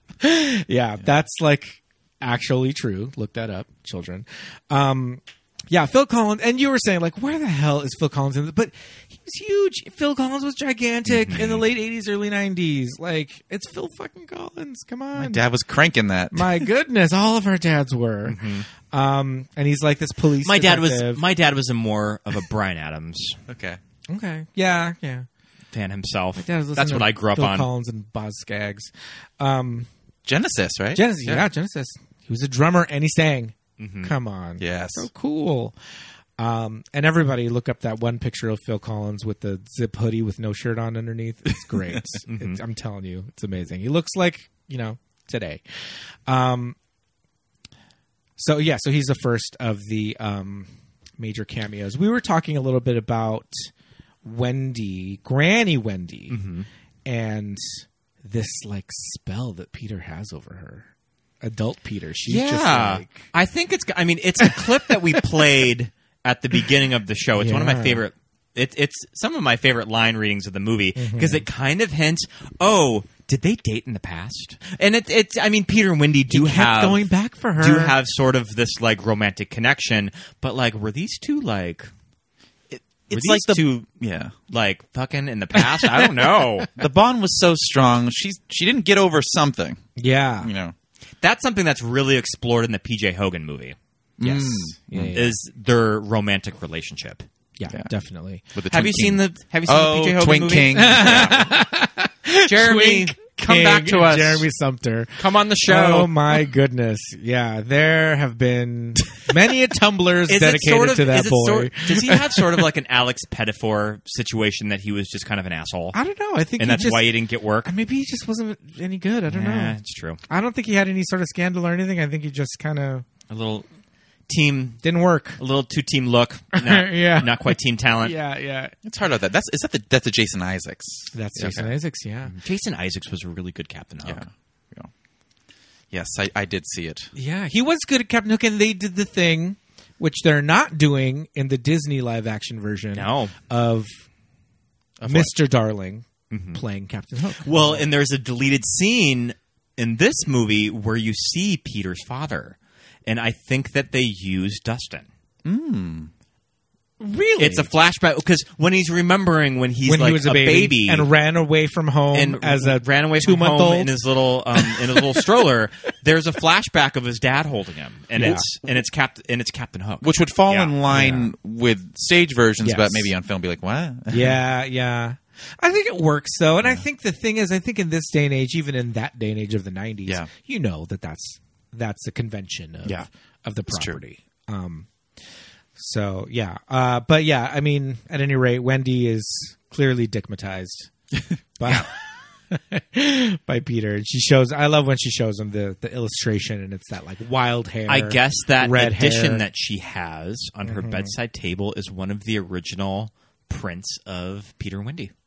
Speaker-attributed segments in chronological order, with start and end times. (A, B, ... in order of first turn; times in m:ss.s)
0:00.2-0:15.4 A
0:11.1-0:11.6 B
0:15.2-0:16.7 C
0:16.3-0:21.2 A
0:18.2-0:18.7 B
0:20.4-0:23.4 B
0:23.5-0:23.8 C
0:24.1-0:25.3 A
0:25.7-0:27.7 B
0:26.4-0:29.9 A
0:30.3-0:31.2 C
0:30.9-0:35.8 A
0:33.8-0:34.1 B
0:34.6-0:35.1 C
0:36.4-0:45.6 A
0:41.7-0:42.0 C
0:42.3-0:42.6 B
0:46.3-0:46.8 A
0:48.4-0:53.7 A
0:54.2-0:56.4 A
0:56.3-0:56.7 B
0:57.1-1:00.9 A
1:01.4-1:03.3 A
1:02.3-1:17.0 B
1:04.4-1:05.2 A
1:07.4-1:08.0 A
1:11.0-1:11.4 A
1:16.3-1:17.9 A
1:17.6-1:21.9 B
1:22.7-1:23.9 B
1:23.1-1:24.3 C
1:24.5-1:26.7 B
1:25.6-1:26.1 A
1:26.8-1:29.9 C
1:30.0-1:30.5 A
1:30.4-1:30.8 C
1:31.2-1:37.2 B
1:34.2-1:35.2 C
1:34.9-1:35.4 A
1:37.6-1:38.4 A
1:38.5-1:41.4 C
1:38.7-1:41.4 B
1:40.8-1:52.4 A
1:42.5-1:44.5 B
1:45.2-1:46.4 B
1:50.3-1:56.0 B
1:55.9-1:57.1 A
1:56.6-1:57.7 B
1:57.6-1:59.8 A
1:59.3-2:00.2 B
2:00.3-2:03.1 A
2:03.3-2:03.7 B
2:04.3-2:04.8 B
2:04.8-2:05.4 A
2:05.4-2:08.2 B
2:06.5-2:08.7 A
2:08.8-2:11.7 C
2:11.1-2:12.3 A
2:12.3-2:14.2 B
2:14.0-2:14.9 C
2:15.9-2:17.1 C
2:17.2-2:23.9 A
2:22.9-2:23.3 B
2:25.0-2:25.4 C
2:25.0-2:27.9 A
2:26.3-2:26.6 B
2:27.4-2:35.1 B
2:35.4-2:36.1 C
2:37.0-2:37.7 A
2:37.4-2:41.1 B
2:39.9-2:43.9 A
2:42.1-2:50.7 B
2:44.6-2:45.1 A
2:48.2-2:48.4 A
2:50.0-2:54.4 C
2:50.9-2:51.3 A
2:52.6-2:53.1 A
2:54.1-3:04.9 A
3:03.7-3:04.0 C
3:05.8-3:10.9 A
3:11.6-3:12.0 A
3:12.5-3:19.4 A
3:17.9-3:25.1 B
3:20.6-3:21.1 A